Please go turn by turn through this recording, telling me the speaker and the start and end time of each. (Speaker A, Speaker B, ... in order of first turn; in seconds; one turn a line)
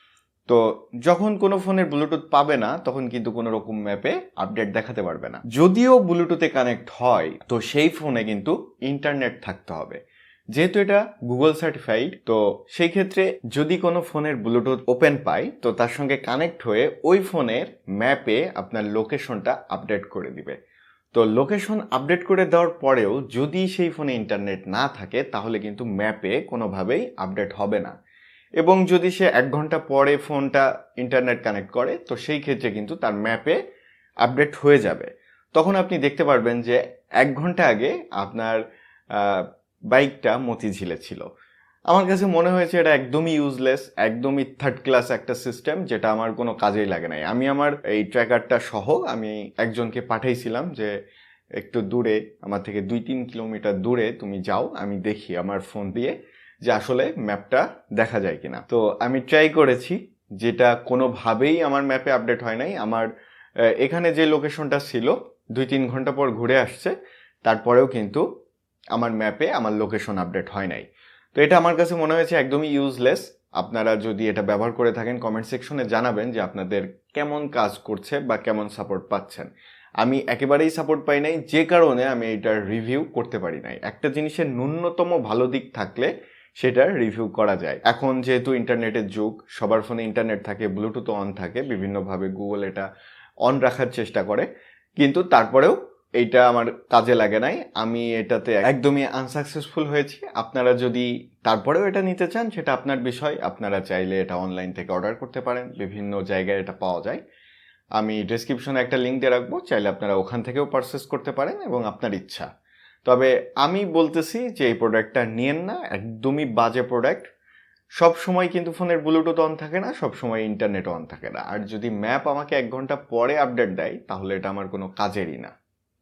Speaker A: 0.5-10.0
Speaker A: 10.5-20.6
Speaker A: 21.1-27.9
Speaker A: 28.6-33.6
Speaker A: 34.2-38.6
Speaker A: 39.1-41.2
Speaker A: 41.9-50.9
Speaker A: 51.6-63.1
Speaker A: 63.8-68.2
Speaker A: 68.9-79.5
Speaker A: 80.0-92.9
Speaker A: 93.4-94.5
Speaker A: 95.0-107.2
Speaker A: 108.0-112.5
Speaker A: 113.0-117.3
Speaker A: 118.0-125.5